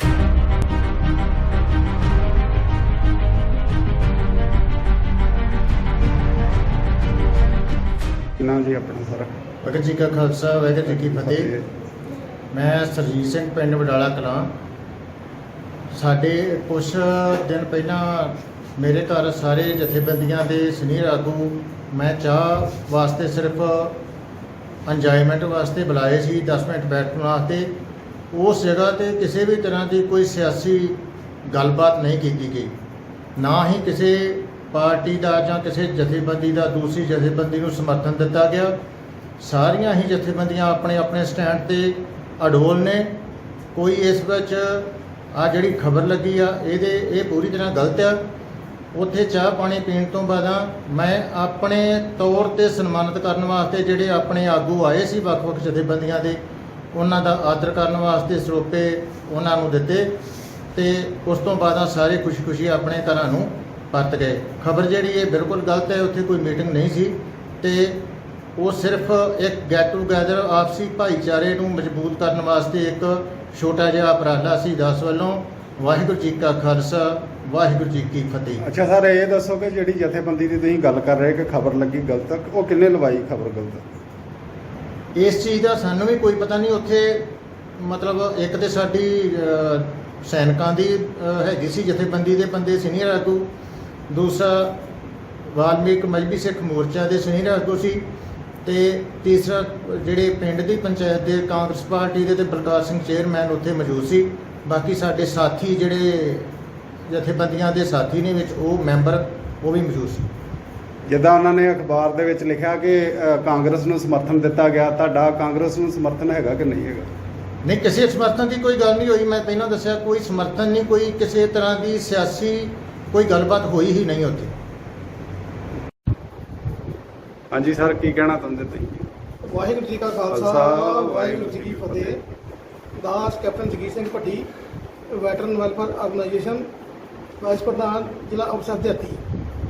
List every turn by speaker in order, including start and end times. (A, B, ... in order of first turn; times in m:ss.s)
0:08.4-0:09.3 A
0:09.6-0:11.5 B
0:10.9-0:11.6 A
0:12.5-0:14.5 B
0:15.9-0:24.0 B
0:24.8-0:27.7 B
0:28.3-0:31.0 B
0:31.5-0:32.7 B
0:33.4-0:38.8 B
0:39.4-0:43.1 B
0:43.7-0:48.2 B
0:48.9-0:56.4 B
0:56.9-1:00.1 B
1:00.7-1:08.0 B
1:08.6-1:18.6 B
1:18.6-1:23.9 A
1:25.1-1:33.5 B
1:34.1-1:34.8 B
1:35.5-1:38.0 B
1:38.6-1:46.5 B
1:47.1-1:50.3 B
1:51.1-1:57.1 A
1:57.6-2:04.5 B
2:07.5-2:09.1 A
2:09.4-2:12.2 C
2:10.3-2:12.2 A
2:12.9-2:14.5 C
2:15.1-2:16.7 C
2:17.4-2:19.2 C